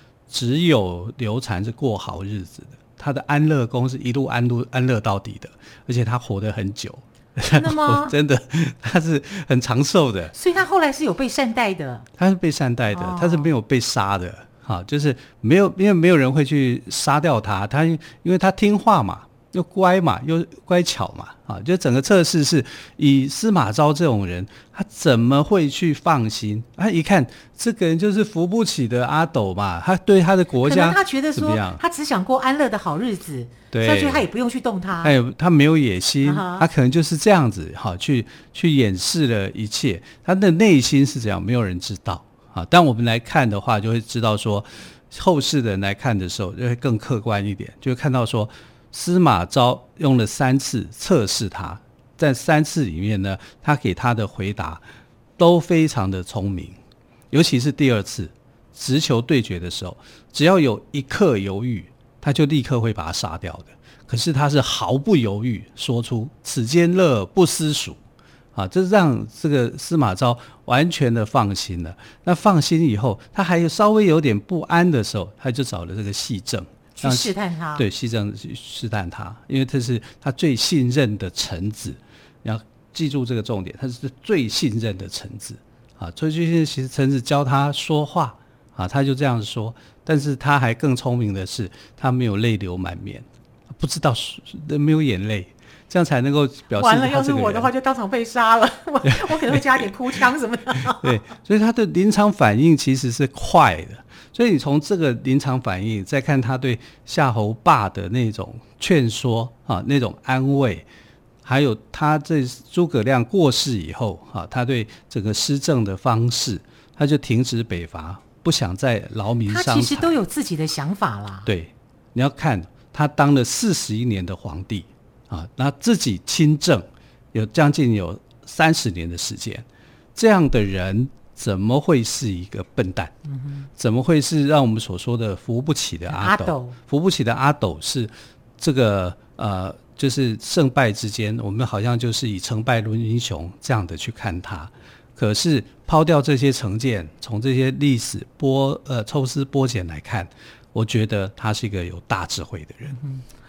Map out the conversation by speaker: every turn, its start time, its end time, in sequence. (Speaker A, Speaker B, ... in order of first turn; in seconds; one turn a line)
Speaker A: 0.3-10.3
Speaker B: 7.5-8.2
Speaker B: 10.3-12.1
Speaker A: 12.2-31.8
Speaker B: 12.9-13.5
Speaker B: 30.6-35.1
Speaker A: 33.7-34.3
Speaker A: 35.0-54.8
Speaker B: 36.2-36.6
Speaker A: 55.4-56.8
Speaker A: 57.3-68.0
Speaker A: 68.5-97.7
Speaker B: 77.0-77.8
Speaker B: 96.8-101.2
Speaker A: 99.0-99.8
Speaker A: 100.8-110.9
Speaker A: 111.4-120.1
Speaker B: 119.5-121.5
Speaker A: 121.4-133.1
Speaker A: 133.8-153.0
Speaker B: 136.1-136.8
Speaker B: 152.9-153.2